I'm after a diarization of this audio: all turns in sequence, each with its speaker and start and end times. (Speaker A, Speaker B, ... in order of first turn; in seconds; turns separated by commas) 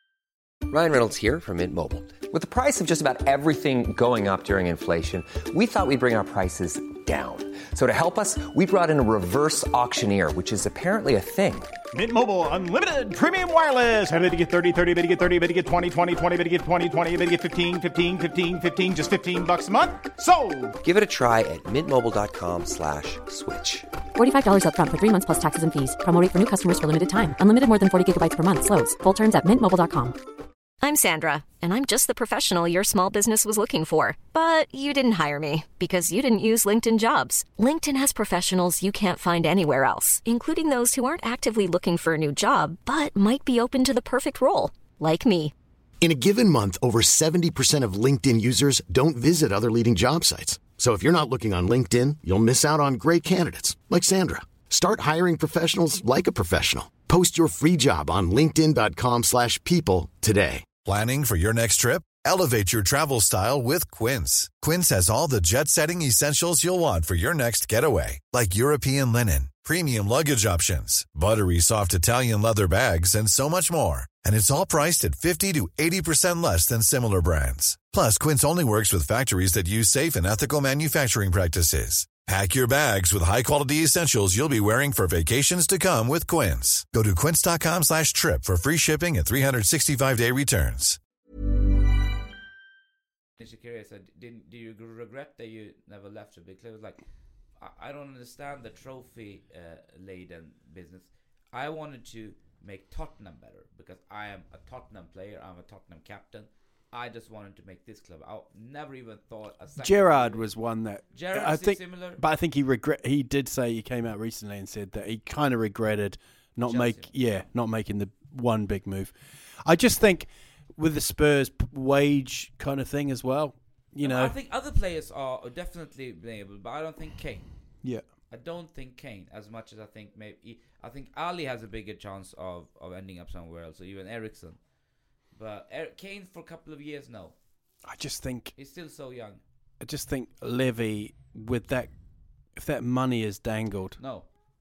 Speaker A: 0.7-11.7, Speaker B: 11.9-20.7, Speaker A: 20.8-23.9, Speaker C: 24.1-30.2, Speaker D: 30.8-45.5, Speaker E: 46.0-60.7, Speaker F: 60.8-91.0, Speaker G: 93.4-97.0, Speaker G: 97.6-110.5, Speaker H: 109.8-124.3, Speaker G: 111.1-112.2, Speaker G: 116.6-117.1, Speaker G: 124.0-127.5, Speaker G: 128.3-134.6, Speaker G: 135.3-137.3, Speaker H: 137.8-138.5, Speaker G: 138.6-139.4, Speaker H: 139.8-141.9, Speaker H: 142.6-144.0, Speaker G: 144.0-144.3